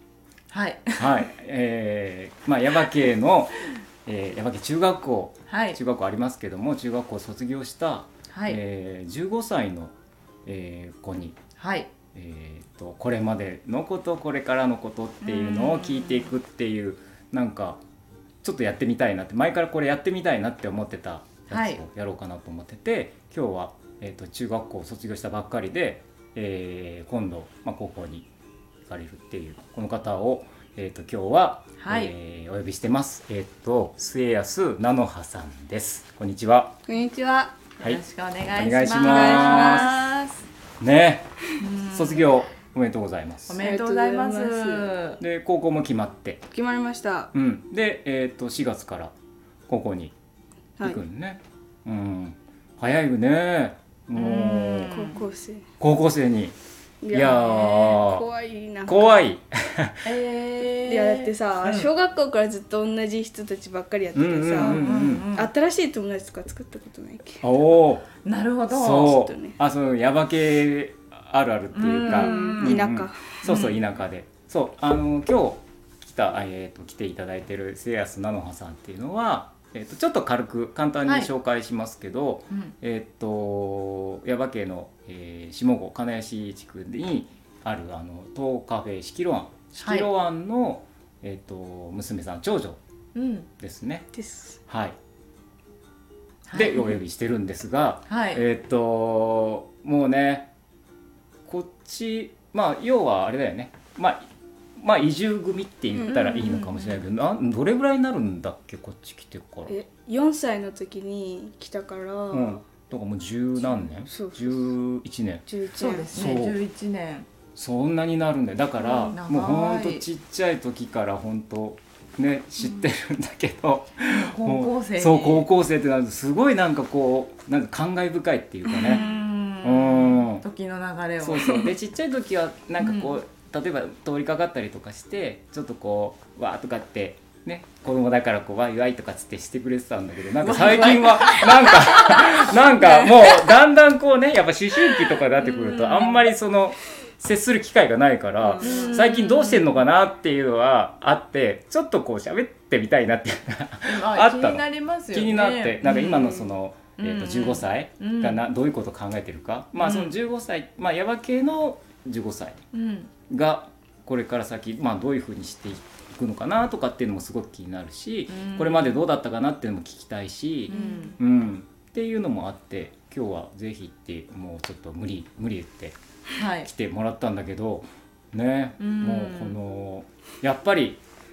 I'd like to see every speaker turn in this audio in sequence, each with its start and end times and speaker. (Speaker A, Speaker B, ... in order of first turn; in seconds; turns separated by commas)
Speaker A: 0.5-1.3, Speaker B: 1.0-9.9, Speaker A: 5.5-5.8, Speaker A: 8.3-8.6, Speaker B: 10.4-11.4, Speaker A: 11.6-11.9, Speaker B: 12.1-17.8, Speaker A: 15.2-16.3, Speaker B: 18.4-28.3, Speaker A: 21.5-21.8, Speaker B: 28.9-36.8, Speaker A: 31.8-32.1, Speaker C: 36.9-37.6, Speaker A: 37.8-40.4, Speaker B: 38.5-40.0, Speaker C: 39.0-40.0, Speaker B: 40.8-41.3, Speaker A: 41.6-42.5, Speaker B: 41.9-43.6, Speaker A: 43.5-45.2, Speaker C: 43.6-44.9, Speaker B: 45.2-46.4, Speaker C: 46.5-47.3, Speaker B: 47.3-49.1, Speaker B: 49.7-50.1, Speaker B: 50.8-55.0, Speaker A: 54.1-55.2, Speaker C: 54.8-55.6, Speaker B: 55.8-56.5, Speaker C: 57.0-59.2, Speaker B: 57.1-58.2, Speaker B: 58.9-60.1, Speaker A: 60.0-61.9, Speaker C: 60.8-67.4, Speaker B: 64.1-65.3, Speaker A: 64.5-65.5, Speaker B: 67.4-68.1, Speaker A: 68.2-69.2, Speaker B: 68.7-92.8, Speaker C: 69.1-69.6, Speaker A: 71.7-72.9, Speaker C: 72.1-73.3, Speaker A: 73.4-73.8, Speaker A: 89.8-90.1, Speaker A: 93.1-93.5, Speaker B: 93.6-94.1, Speaker C: 94.1-94.6, Speaker B: 94.7-95.0, Speaker A: 96.5-97.0, Speaker B: 96.5-100.5, Speaker A: 98.1-98.4, Speaker B: 101.5-109.7, Speaker C: 105.9-106.2, Speaker A: 106.0-107.0, Speaker C: 109.7-112.7, Speaker B: 112.3-115.5, Speaker C: 113.7-114.7, Speaker C: 115.5-116.1, Speaker A: 115.8-117.3, Speaker B: 116.1-116.6, Speaker B: 117.5-129.1, Speaker C: 118.8-119.1, Speaker A: 119.0-120.0, Speaker A: 124.1-125.5, Speaker A: 128.7-131.8, Speaker B: 129.6-130.4, Speaker B: 131.2-162.6, Speaker A: 132.8-133.2, Speaker A: 140.4-142.7, Speaker C: 142.8-143.2, Speaker A: 145.4-146.2, Speaker C: 148.4-148.8, Speaker A: 148.6-149.8, Speaker A: 153.9-158.4, Speaker A: 159.8-160.1, Speaker A: 162.7-163.1, Speaker B: 163.3-175.9, Speaker A: 168.3-169.1, Speaker A: 170.7-171.2, Speaker C: 170.7-171.2, Speaker A: 176.3-176.7, Speaker B: 176.6-181.0, Speaker A: 178.8-179.6